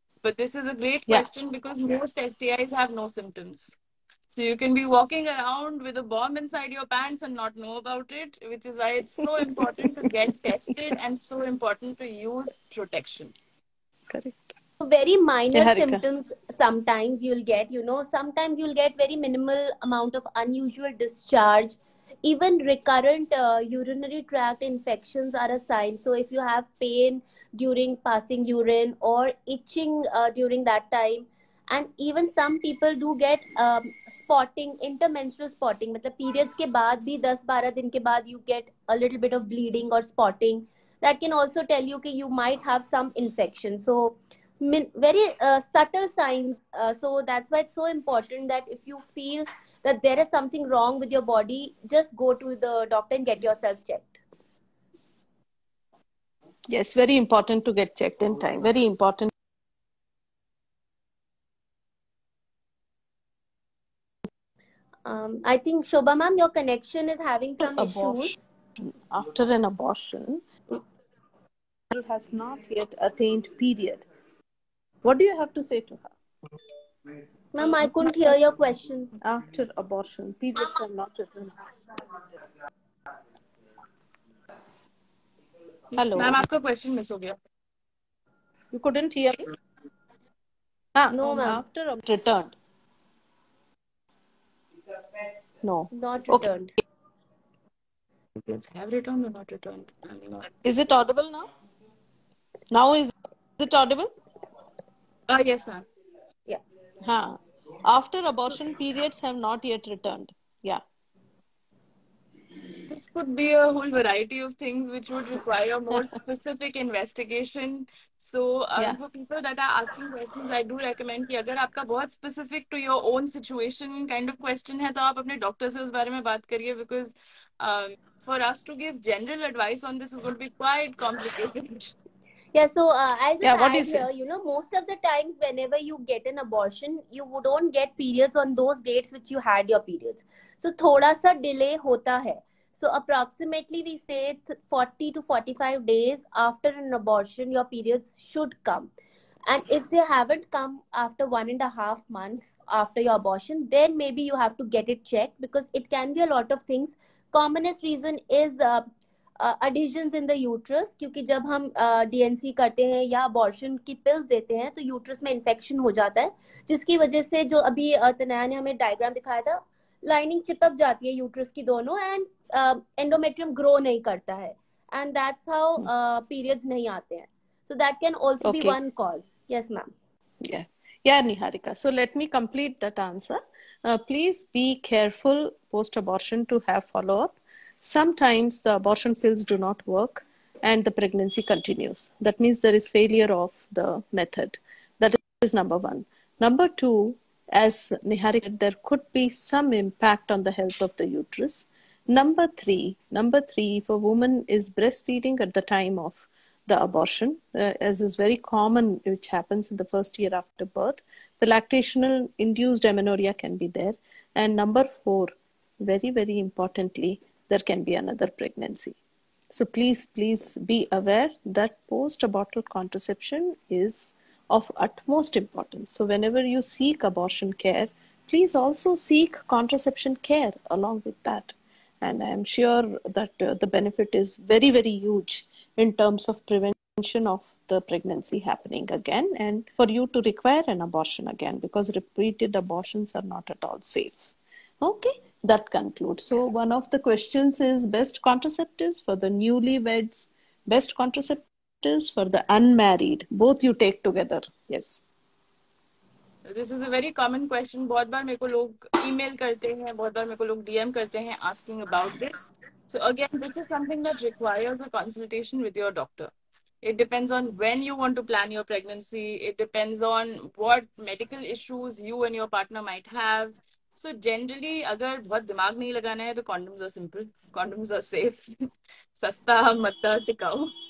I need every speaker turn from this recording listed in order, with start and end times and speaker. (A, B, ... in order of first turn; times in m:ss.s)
0:00.2-0:03.8 A
0:04.4-0:13.3 A
0:14.1-0:14.5 B
0:14.8-0:54.2 C
0:15.5-0:16.0 B
0:56.7-0:59.3 B
1:05.0-1:08.4 C
1:07.6-1:10.4 B
1:11.9-1:14.0 B
1:15.0-1:16.2 B
1:17.5-1:19.1 C
1:19.2-1:21.7 B
1:25.9-1:26.4 B
1:26.1-1:27.4 A
1:28.7-1:29.4 B
1:31.0-1:32.6 B
1:31.1-1:31.6 C
1:35.6-1:36.5 B
1:35.9-1:36.7 C
1:38.4-1:40.5 A
1:40.6-1:41.5 B
1:42.7-1:44.1 B
1:45.3-1:45.8 A
1:47.0-1:50.8 B
1:52.9-2:11.9 A
2:12.5-2:28.9 C
2:13.4-2:14.1 B
2:29.5-2:38.9 C
2:39.4-2:59.9 C
2:58.4-2:58.8 B
3:00.4-3:39.0 B
3:39.5-4:15.0 B
4:16.4-4:26.3 A
4:26.8-4:38.5 A
4:39.2-4:40.7 A